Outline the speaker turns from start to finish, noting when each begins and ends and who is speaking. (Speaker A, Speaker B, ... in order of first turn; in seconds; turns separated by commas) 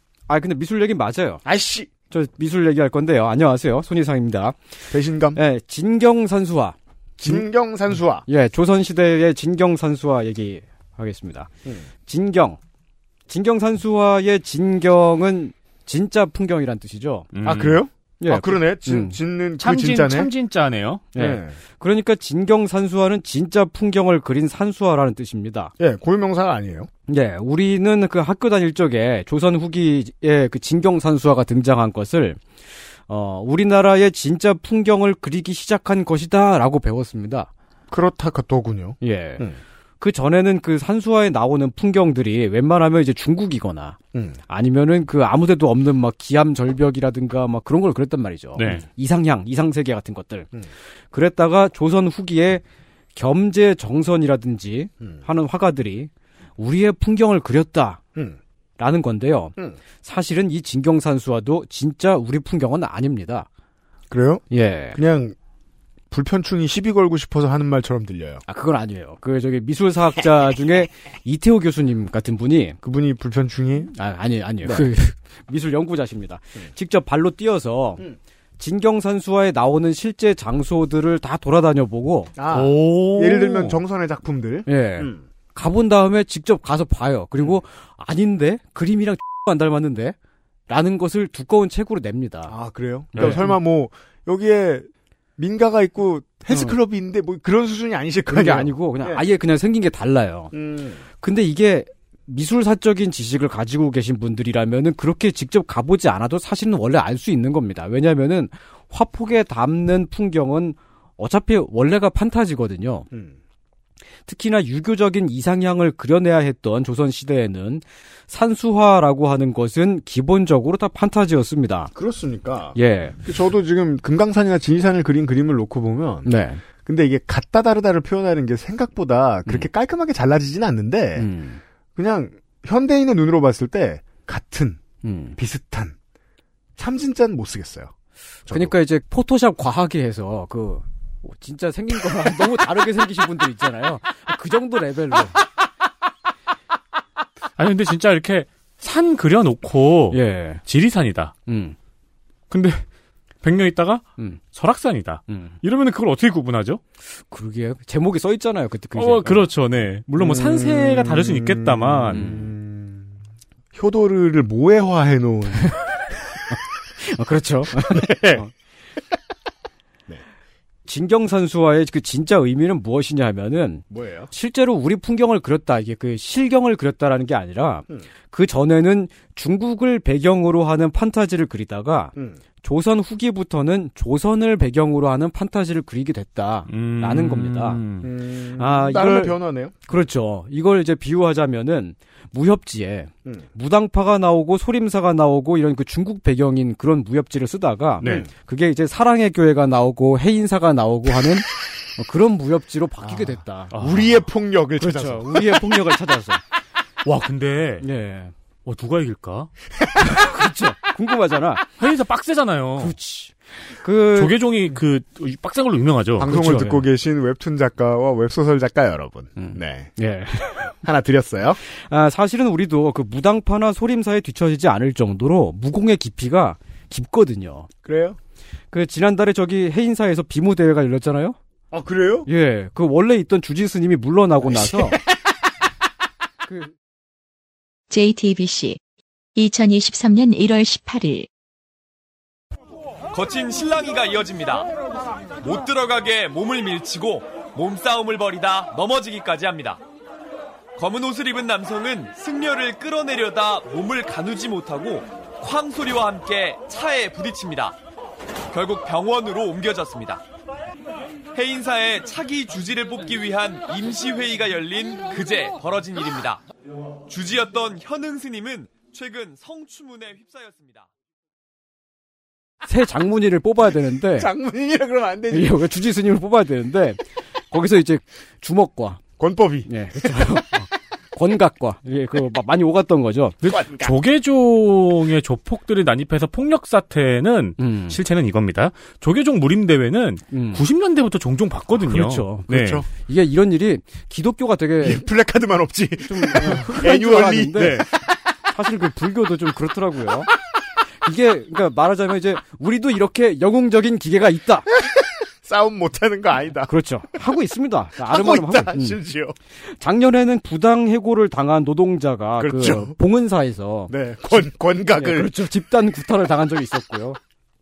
Speaker A: 0.3-1.4, Speaker B: 1.4-1.9, Speaker A: 2.1-4.6, Speaker B: 4.9-5.4, Speaker A: 5.3-7.5, Speaker B: 7.2-8.3, Speaker A: 8.3-11.5, Speaker A: 12.1-12.6, Speaker A: 13.3-17.3, Speaker C: 17.3-17.8, Speaker B: 17.4-20.3, Speaker A: 18.2-19.2, Speaker C: 19.6-21.1, Speaker B: 21.1-21.6, Speaker A: 21.1-25.7, Speaker B: 25.8-26.9, Speaker A: 27.1-32.4, Speaker A: 33.1-37.5, Speaker B: 37.9-39.6, Speaker A: 39.0-39.5, Speaker A: 40.0-44.0, Speaker B: 44.1-44.4, Speaker A: 44.5-50.5, Speaker C: 48.6-48.8, Speaker A: 51.1-52.6, Speaker A: 53.1-58.0, Speaker A: 58.8-63.5, Speaker B: 64.1-65.4, Speaker A: 64.5-65.0, Speaker B: 66.1-68.4, Speaker A: 68.5-72.8, Speaker B: 72.8-73.9, Speaker A: 73.9-78.0, Speaker A: 78.6-82.3, Speaker B: 82.4-85.2, Speaker C: 82.5-83.8, Speaker A: 84.7-90.2, Speaker A: 90.7-92.5, Speaker B: 92.5-99.2, Speaker A: 93.2-93.5, Speaker A: 98.3-100.5, Speaker B: 100.5-101.0, Speaker A: 101.2-113.1, Speaker B: 113.1-113.4, Speaker A: 114.3-121.9, Speaker B: 122.0-131.3, Speaker A: 122.8-123.2, Speaker A: 126.2-126.6, Speaker A: 131.2-131.6, Speaker B: 132.0-134.8, Speaker A: 135.0-135.4, Speaker B: 135.4-136.0, Speaker B: 136.8-137.9, Speaker B: 138.5-138.8, Speaker A: 138.5-145.4, Speaker C: 147.6-151.3, Speaker A: 150.1-150.6, Speaker A: 151.5-151.8, Speaker C: 152.5-152.9, Speaker C: 153.4-156.8, Speaker A: 155.3-155.5, Speaker A: 157.3-159.5, Speaker C: 158.9-162.4, Speaker B: 160.2-163.1, Speaker A: 162.1-162.5, Speaker B: 163.7-165.8, Speaker A: 166.5-168.5, Speaker B: 167.9-168.4, Speaker A: 170.9-187.8, Speaker B: 173.9-174.3, Speaker C: 186.7-188.1, Speaker B: 188.0-189.8, Speaker A: 188.6-203.7, Speaker C: 198.0-198.3, Speaker B: 198.0-198.3, Speaker B: 203.0-205.8, Speaker C: 203.7-204.3, Speaker A: 204.8-206.4, Speaker C: 207.1-207.9, Speaker A: 207.8-208.3, Speaker C: 208.7-209.5, Speaker A: 210.0-211.7, Speaker B: 210.0-210.3, Speaker C: 211.8-213.0, Speaker A: 212.8-214.4, Speaker C: 214.1-216.6, Speaker B: 216.2-219.9, Speaker A: 216.3-216.8, Speaker A: 219.4-220.8, Speaker B: 220.7-221.6, Speaker A: 221.7-227.7, Speaker B: 227.8-228.2, Speaker A: 228.7-231.4, Speaker B: 231.7-232.3, Speaker A: 232.3-235.0, Speaker B: 234.4-235.0, Speaker A: 236.5-236.7, Speaker D: 237.9-238.8, Speaker D: 239.3-241.3, Speaker E: 243.1-244.7, Speaker E: 245.4-249.8, Speaker E: 250.8-257.8, Speaker E: 258.5-260.2, Speaker E: 261.3-266.4, Speaker E: 267.1-270.9, Speaker A: 272.6-274.3, Speaker B: 274.1-275.6, Speaker A: 275.3-279.0, Speaker B: 279.2-280.4, Speaker A: 279.7-283.4, Speaker B: 283.4-283.9, Speaker C: 283.5-292.9, Speaker A: 287.6-288.0, Speaker A: 290.3-290.6, Speaker A: 291.9-295.1, Speaker B: 292.5-292.9, Speaker B: 294.8-297.9, Speaker A: 296.1-297.9, Speaker C: 297.6-297.9, Speaker A: 298.5-300.3, Speaker A: 301.0-304.7, Speaker B: 304.8-306.8, Speaker A: 306.7-309.0, Speaker B: 308.0-309.4, Speaker A: 309.7-313.9, Speaker B: 312.4-312.9, Speaker B: 313.9-315.4, Speaker A: 314.9-317.2